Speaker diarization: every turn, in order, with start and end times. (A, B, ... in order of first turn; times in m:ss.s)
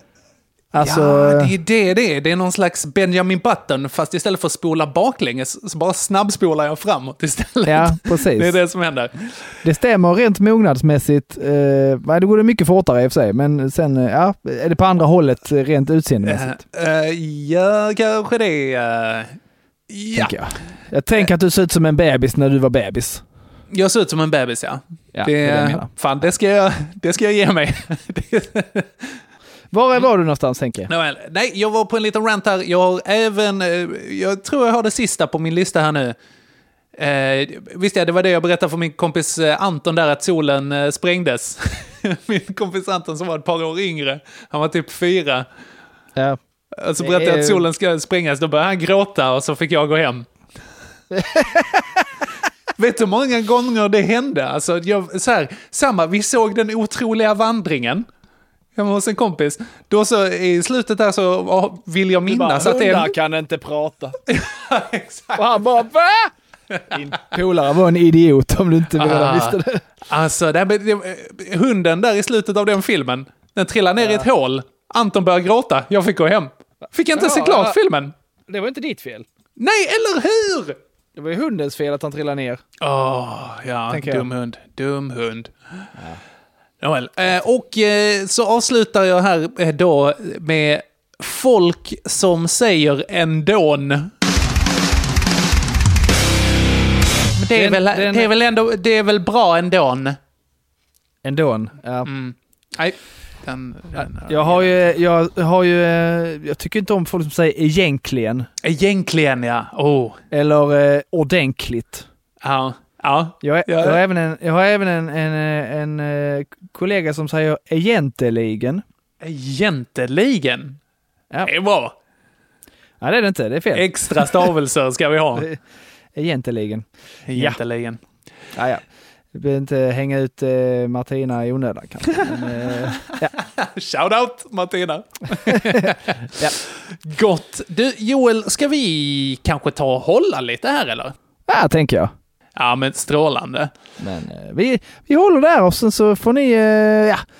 0:00.7-0:01.5 A
0:00.8-0:09.5 B
0:07.6-0:08.6 A
0:09.6-0:16.6 A
0:16.2-0:19.4 B
0:19.9-0:20.3 B
0:20.1-0:23.2 A
0:23.7-0:29.2 B
0:25.1-0:25.9 A
0:29.7-0:30.9 A
0:30.9-0:36.2 B
0:37.0-0:45.4 B
0:46.8-0:50.3 B
0:47.0-0:47.6 A
0:51.1-0:52.0 A
0:52.8-0:58.1 B
0:58.8-1:03.1 B
1:02.3-1:04.2 A
1:04.3-1:05.4 B
1:05.3-1:06.3 A
1:06.9-1:09.8 A
1:09.0-1:18.1 B
1:14.0-1:14.3 A
1:17.1-1:17.8 A
1:18.5-1:19.3 A
1:19.6-1:20.8 B
1:21.1-1:22.6 A
1:22.8-1:25.5 B
1:23.9-1:24.3 A
1:26.0-1:26.2 A
1:26.8-1:34.1 B
1:37.4-1:40.2 B
1:37.5-1:38.3 A
1:41.2-1:42.1 A
1:42.0-1:44.7 B
1:43.9-1:48.5 A
1:48.6-1:50.2 B
1:50.3-1:52.0 A
1:52.4-1:54.0 B
1:53.4-1:58.8 A
1:59.2-2:00.8 B
2:01.4-2:01.9 B
2:03.0-2:04.5 A
2:03.7-2:05.5 B
2:06.1-2:07.6 A
2:07.3-2:08.0 B
2:08.6-2:13.3 A
2:13.4-2:21.1 B
2:15.5-2:16.6 A
2:21.5-2:22.1 A
2:22.6-2:23.7 B
2:24.0-2:27.2 A